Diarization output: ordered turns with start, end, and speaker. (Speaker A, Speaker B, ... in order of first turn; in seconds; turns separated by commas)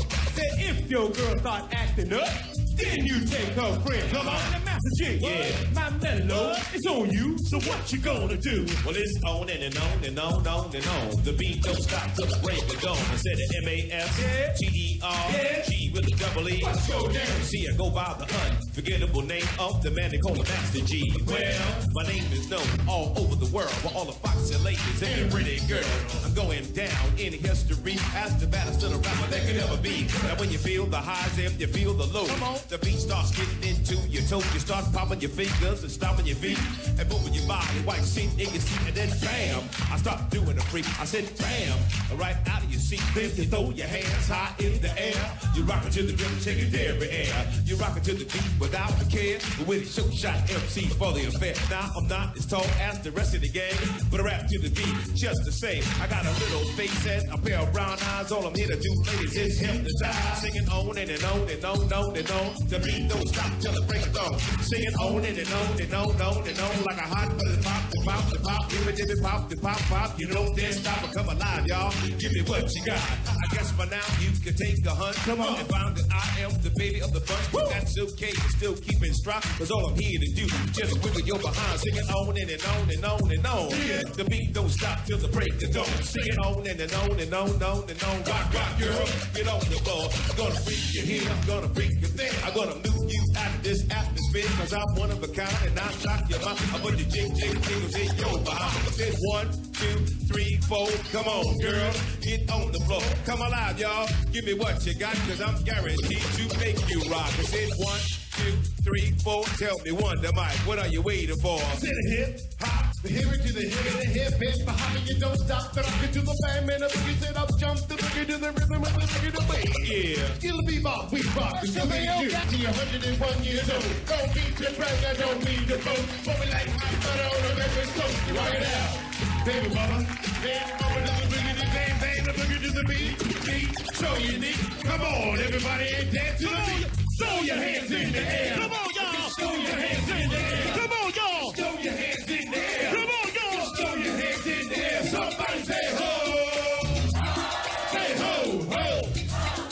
Speaker A: 0.3-8.7, Speaker B: 4.1-4.5, Speaker B: 5.2-5.7, Speaker B: 6.3-6.6, Speaker C: 7.6-8.6, Speaker B: 8.7-111.8, Speaker A: 14.2-14.6, Speaker A: 15.2-15.7, Speaker A: 16.6-17.4, Speaker A: 21.2-21.8, Speaker C: 25.0-26.2, Speaker C: 32.3-32.6, Speaker C: 43.1-45.3, Speaker C: 59.8-60.4, Speaker A: 75.2-75.6, Speaker C: 83.7-84.1, Speaker C: 111.7-141.6, Speaker B: 119.8-120.4, Speaker A: 136.5-140.8, Speaker A: 141.4-142.8, Speaker C: 142.6-146.5, Speaker C: 147.9-149.2